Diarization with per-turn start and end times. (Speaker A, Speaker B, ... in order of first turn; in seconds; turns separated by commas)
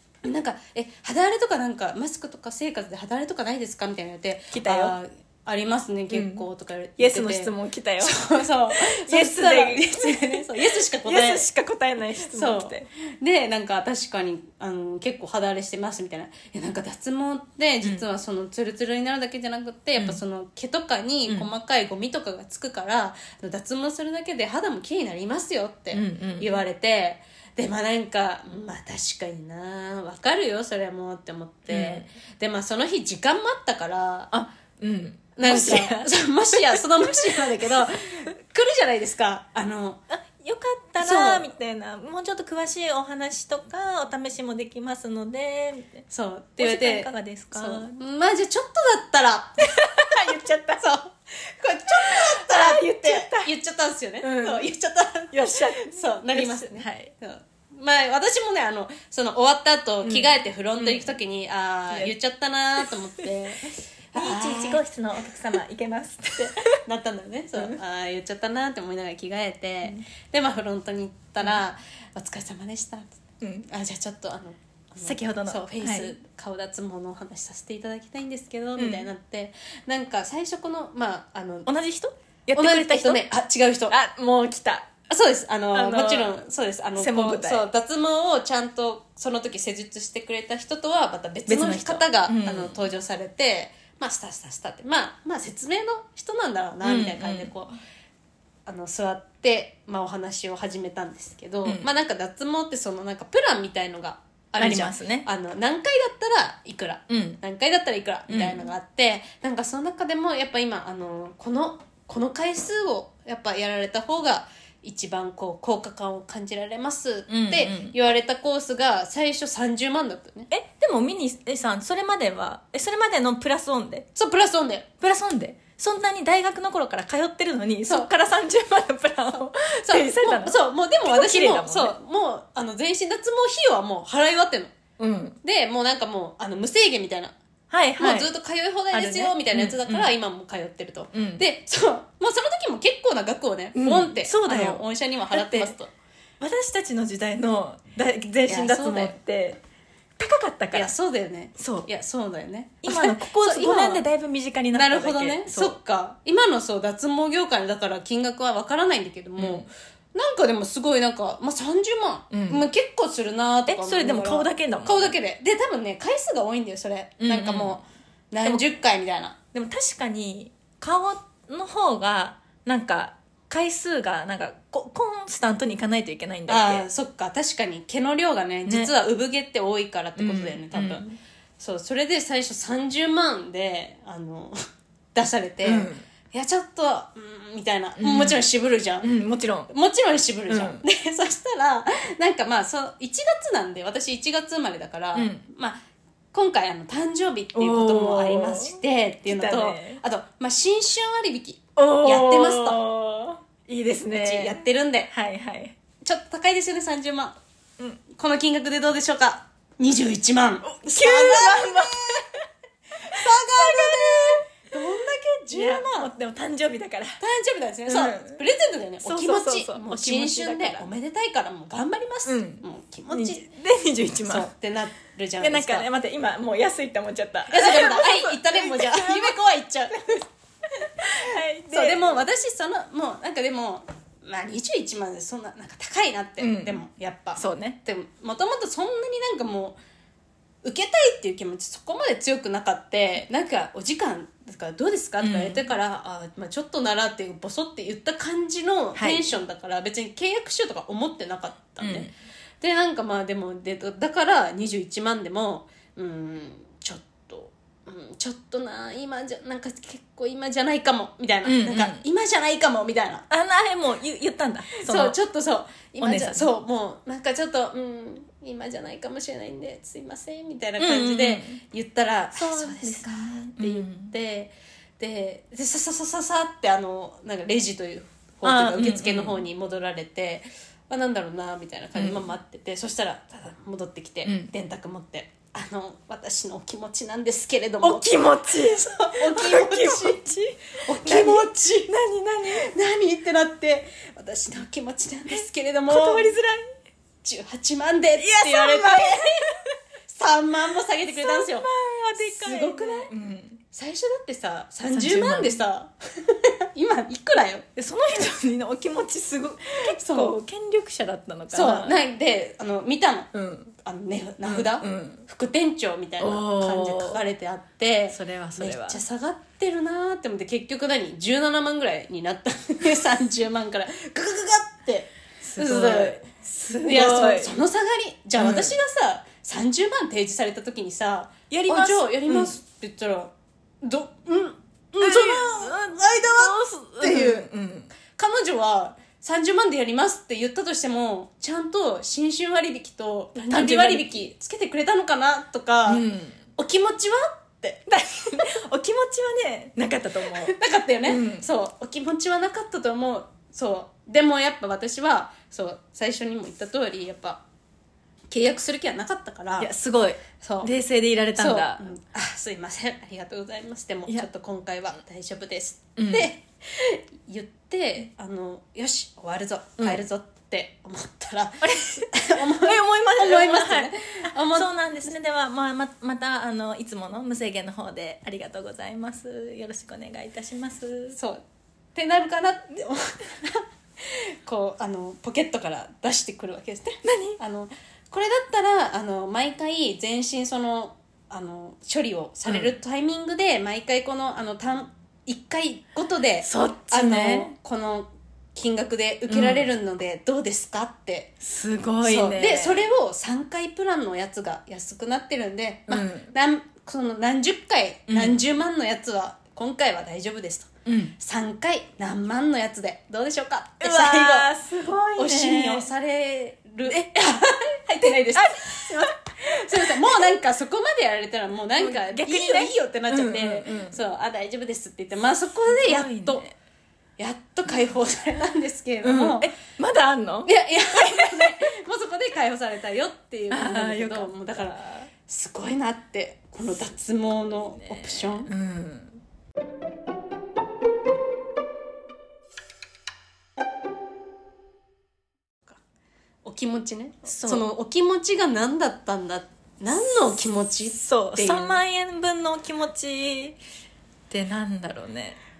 Speaker A: 0.2-11.4, Speaker B: 4.5-4.9, Speaker B: 6.1-6.5, Speaker B: 7.0-12.9, Speaker A: 12.3-34.3, Speaker B: 25.9-26.5, Speaker B: 31.7-32.0, Speaker B: 34.3-37.4, Speaker A: 35.4-40.0, Speaker B: 40.1-46.0, Speaker A: 41.0-41.5, Speaker A: 46.1-49.7, Speaker B: 46.6-48.0, Speaker B: 49.8-50.8, Speaker A: 50.8-64.8, Speaker B: 52.1-53.5, Speaker B: 54.2-54.7, Speaker B: 55.3-57.1, Speaker B: 60.0-61.1, Speaker B: 62.8-63.3, Speaker B: 64.1-66.7, Speaker A: 66.4-73.0, Speaker B: 73.4-73.7, Speaker A: 73.7-81.7, Speaker B: 75.0-76.1, Speaker B: 78.8-79.1, Speaker B: 81.7-83.2, Speaker A: 82.5-83.9, Speaker B: 83.9-84.9, Speaker A: 85.1-97.8, Speaker B: 85.7-86.3, Speaker B: 87.0-87.7, Speaker B: 91.5-92.8, Speaker B: 96.8-97.5, Speaker A: 98.7-120.5, Speaker B: 104.6-105.3, Speaker B: 107.1-107.4, Speaker B: 108.3-108.6, Speaker B: 117.3-118.0, Speaker B: 120.5-124.0, Speaker A: 124.1-124.9, Speaker B: 125.0-131.9, Speaker A: 129.4-134.7, Speaker B: 135.0-135.4, Speaker A: 135.4-137.3, Speaker B: 137.7-138.3, Speaker A: 138.0-145.9, Speaker B: 138.9-140.1, Speaker B: 141.1-141.4, Speaker B: 143.7-145.7, Speaker B: 146.4-149.6, Speaker A: 148.5-149.2, Speaker B: 150.2-150.9, Speaker A: 150.7-154.0, Speaker B: 151.6-151.9, Speaker B: 152.8-155.7, Speaker A: 154.7-169.3, Speaker B: 159.4-159.7, Speaker B: 162.3-162.6, Speaker B: 163.7-165.1, Speaker B: 167.2-167.8, Speaker B: 169.5-176.8, Speaker A: 176.5-181.0, Speaker B: 178.7-178.9, Speaker B: 180.2-181.2, Speaker A: 181.6-184.6, Speaker A: 185.1-189.1, Speaker B: 185.6-186.1, Speaker B: 188.0-188.4, Speaker B: 189.0-189.7, Speaker A: 189.7-195.8, Speaker B: 190.5-190.8, Speaker B: 195.1-195.4, Speaker A: 196.3-202.8, Speaker B: 197.5-200.0, Speaker B: 201.8-205.8, Speaker A: 204.1-205.1, Speaker A: 206.0-207.4, Speaker A: 208.1-212.1, Speaker B: 210.7-212.2, Speaker A: 213.0-216.1, Speaker B: 213.1-214.6, Speaker B: 215.5-217.2, Speaker A: 217.2-223.5, Speaker B: 217.9-218.4, Speaker B: 219.0-220.9, Speaker B: 222.2-224.5, Speaker A: 224.2-225.9, Speaker B: 225.4-229.3, Speaker A: 227.5-230.2, Speaker B: 231.0-232.2, Speaker A: 231.7-239.8, Speaker B: 236.4-236.8, Speaker B: 237.4-237.8, Speaker A: 240.6-252.1, Speaker B: 245.2-245.7, Speaker B: 248.9-249.4, Speaker B: 251.8-252.1, Speaker A: 252.6-263.2, Speaker B: 261.4-262.0, Speaker B: 263.3-265.1, Speaker A: 264.8-290.2, Speaker B: 266.0-266.5, Speaker B: 270.8-271.6, Speaker B: 272.3-274.1, Speaker B: 278.4-279.4, Speaker B: 281.9-282.2, Speaker B: 284.2-284.5, Speaker B: 287.8-292.7, Speaker A: 290.9-291.9, Speaker A: 292.4-296.4, Speaker B: 295.3-296.7, Speaker A: 297.2-299.4, Speaker B: 298.1-299.4, Speaker A: 300.1-303.1, Speaker B: 301.1-303.6, Speaker A: 303.7-307.6, Speaker B: 304.9-305.6, Speaker B: 307.8-312.0, Speaker A: 309.9-310.4, Speaker A: 311.5-326.2, Speaker B: 313.3-313.7, Speaker B: 314.4-315.2, Speaker B: 316.2-317.2, Speaker B: 318.1-319.0, Speaker B: 325.4-327.6, Speaker A: 326.8-333.3, Speaker B: 328.4-328.8, Speaker B: 331.5-332.5, Speaker A: 333.8-337.5, Speaker B: 335.0-337.9, Speaker A: 338.1-346.1, Speaker B: 343.3-344.1, Speaker B: 345.9-346.4, Speaker A: 346.6-347.8, Speaker B: 347.9-350.5, Speaker A: 350.4-357.4, Speaker B: 351.1-351.5, Speaker A: 358.3-359.7, Speaker B: 359.6-361.8, Speaker A: 360.4-360.7, Speaker A: 361.4-374.7, Speaker B: 366.0-366.3, Speaker B: 371.6-381.1, Speaker A: 381.1-381.4, Speaker A: 381.9-401.3, Speaker B: 387.0-387.4, Speaker B: 396.4-397.5, Speaker B: 399.3-399.7, Speaker B: 401.4-402.9, Speaker A: 402.0-414.5, Speaker B: 405.9-406.3, Speaker B: 408.1-408.4, Speaker B: 410.9-411.1, Speaker B: 413.8-415.9, Speaker A: 415.2-426.4, Speaker B: 418.1-420.2, Speaker B: 421.8-424.0, Speaker B: 425.7-426.5, Speaker A: 427.2-429.5, Speaker B: 429.0-431.5, Speaker A: 430.4-438.5, Speaker B: 433.5-435.1, Speaker B: 437.7-439.2, Speaker A: 446.4-451.8, Speaker B: 447.3-447.6, Speaker B: 450.9-453.6, Speaker B: 454.3-455.4